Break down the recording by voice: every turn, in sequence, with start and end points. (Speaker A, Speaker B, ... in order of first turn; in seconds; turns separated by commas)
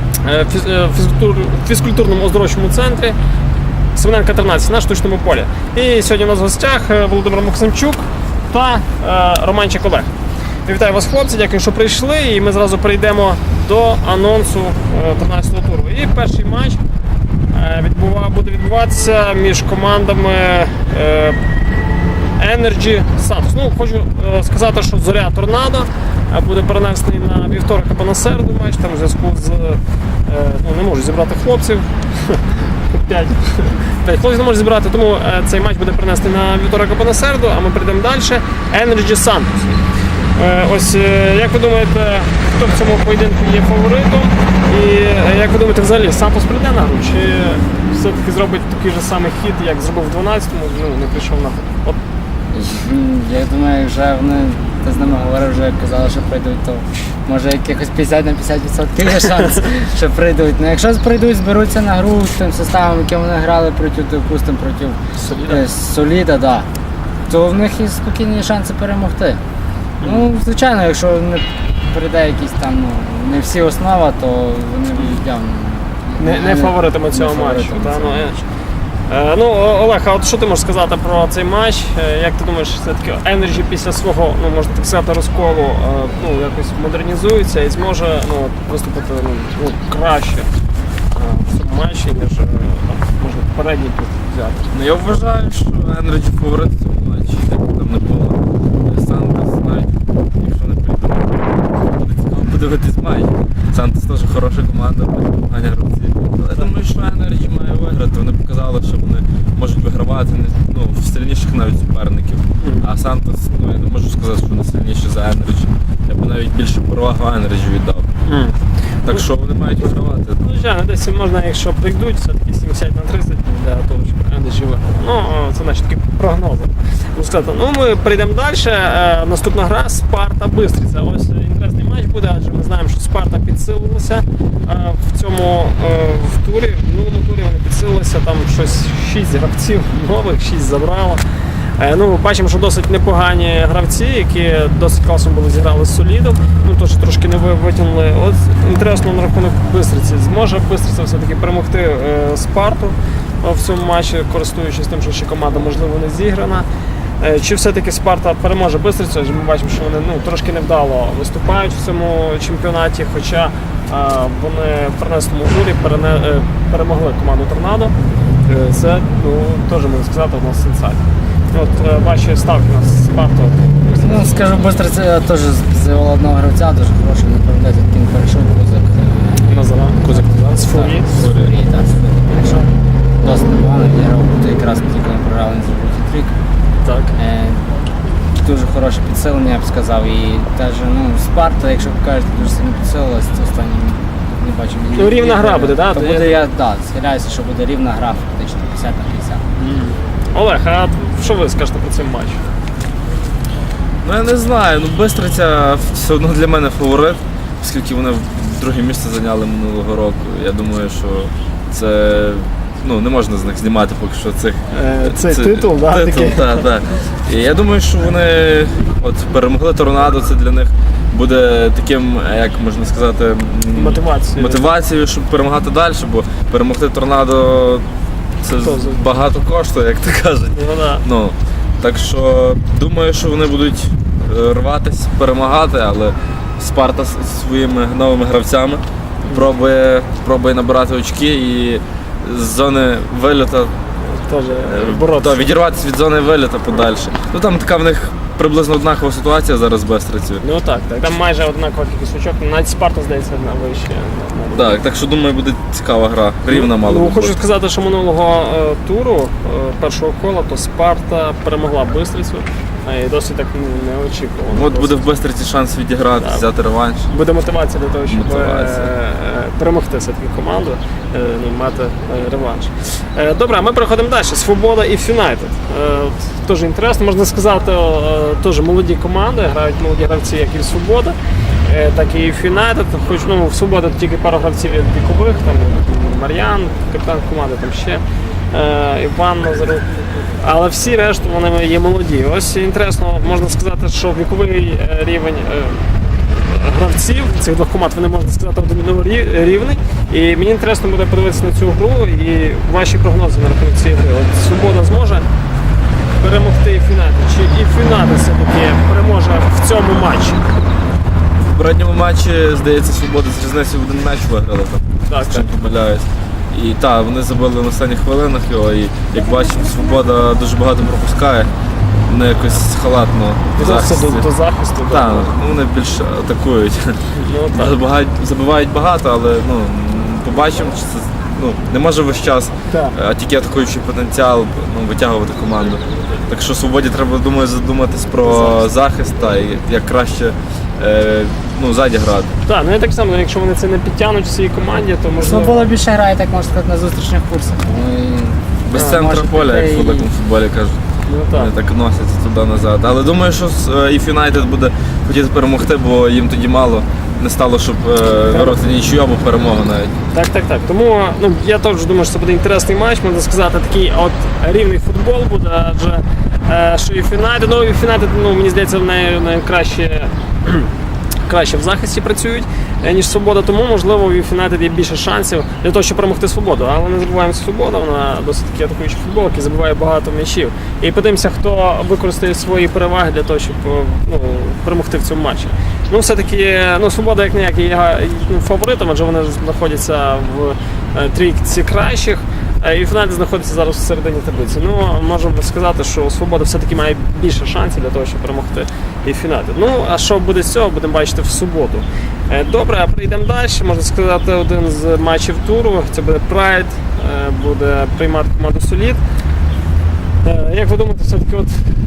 Speaker A: 0.2-3.2, Speaker A: 3.9-10.1, Speaker A: 10.7-16.8, Speaker A: 17.5-21.4, Speaker A: 22.4-39.8, Speaker A: 40.3-52.0, Speaker B: 52.5-66.7, Speaker A: 65.2-65.6, Speaker B: 67.3-69.4, Speaker A: 70.0-70.2, Speaker B: 70.0-78.5, Speaker A: 76.2-78.3, Speaker A: 79.1-90.5, Speaker A: 91.1-94.7, Speaker C: 94.7-118.1, Speaker A: 112.6-112.9, Speaker A: 118.2-119.3, Speaker C: 119.0-120.4, Speaker A: 119.8-141.2, Speaker A: 141.8-156.7, Speaker A: 157.2-167.9, Speaker A: 168.4-174.5, Speaker B: 173.9-186.3, Speaker A: 179.4-181.2, Speaker C: 181.1-181.5, Speaker A: 186.8-187.1, Speaker B: 187.2-187.7, Speaker B: 188.4-199.4, Speaker A: 194.9-196.4, Speaker A: 199.6-202.4, Speaker C: 204.0-227.8, Speaker A: 214.7-216.7, Speaker A: 223.7-224.6, Speaker C: 228.4-243.7, Speaker A: 228.6-229.0, Speaker A: 230.5-231.0, Speaker A: 244.0-245.5, Speaker C: 244.7-250.4, Speaker A: 250.4-254.8, Speaker C: 254.5-257.4, Speaker A: 256.5-265.0, Speaker C: 264.5-267.1, Speaker A: 266.2-266.5, Speaker A: 267.1-289.9, Speaker C: 268.1-268.9, Speaker A: 290.4-295.9, Speaker A: 296.4-305.2, Speaker A: 306.2-310.4, Speaker C: 311.4-321.5, Speaker A: 315.1-315.5, Speaker C: 322.1-324.3, Speaker A: 323.6-325.3, Speaker C: 324.9-342.3, Speaker A: 327.1-327.7, Speaker A: 332.7-332.9, Speaker A: 338.2-338.5, Speaker A: 342.4-345.7, Speaker B: 345.2-350.1, Speaker C: 348.7-350.8, Speaker A: 348.7-349.0, Speaker A: 351.1-351.5, Speaker C: 351.3-359.9, Speaker A: 358.3-358.6, Speaker A: 360.1-370.7, Speaker A: 371.2-409.0, Speaker A: 410.2-411.6